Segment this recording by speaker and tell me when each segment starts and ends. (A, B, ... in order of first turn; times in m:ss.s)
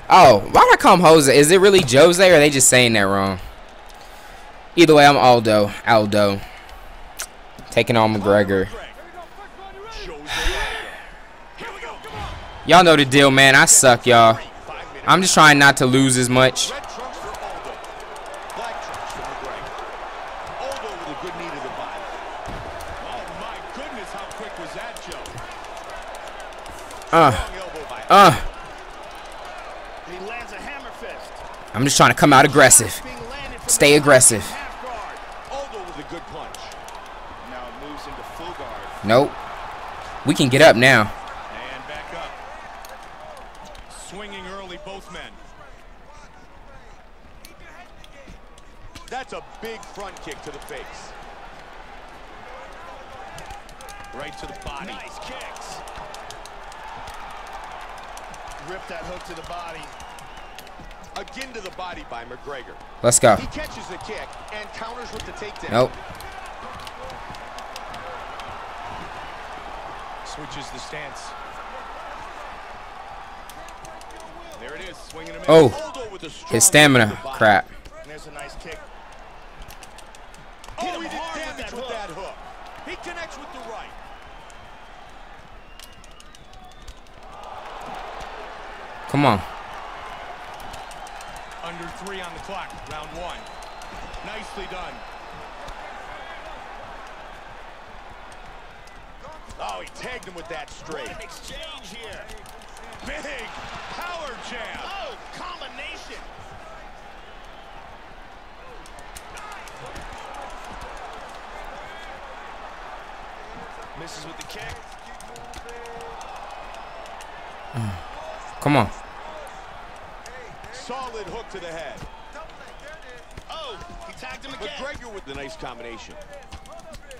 0:00.1-0:03.4 A
0:04.8-0:06.4 A
0:07.7-0:08.7 A
0:08.1-0:09.0 B
0:09.8-0:11.0 B
0:11.6-0:12.3 B
0:12.6-0:14.4 A
0:13.6-0:15.6 B
0:15.0-0:16.8 A
0:16.6-0:17.8 B
0:18.5-0:19.7 B
0:20.6-0:22.2 B
0:23.0-0:25.4 B
0:27.1-0:27.5 A
0:27.1-0:28.4 B
0:28.1-0:28.4 A
0:30.0-0:31.4 C
0:31.7-0:33.0 A
0:32.4-0:35.2 C
0:33.7-0:34.5 A
0:35.5-0:36.8 B
0:37.4-0:39.0 C
0:39.0-0:39.4 A
0:40.2-0:41.1 A
0:41.5-0:42.4 B
0:43.9-0:45.4 B
0:49.1-0:51.1 B
0:54.1-0:55.0 B
0:54.8-0:55.8 C
0:58.6-0:59.9 C
1:01.1-1:05.9 B
1:03.0-1:03.5 A
1:10.2-1:11.3 B
1:14.5-1:17.6 B
1:15.5-1:15.8 A
1:16.5-1:17.7 A
1:18.0-1:18.8 C
1:20.8-1:24.0 B
1:20.8-1:22.0 C
1:29.1-1:29.4 A
1:31.6-1:33.5 B
1:34.2-1:35.0 B
1:39.6-1:41.2 B
1:40.9-1:42.3 C
1:43.0-1:44.9 B
1:44.8-1:46.3 C
1:53.9-1:54.8 C
1:58.6-1:58.9 A
2:00.7-2:02.1 B
2:03.5-2:04.9 C
2:04.6-2:06.2 B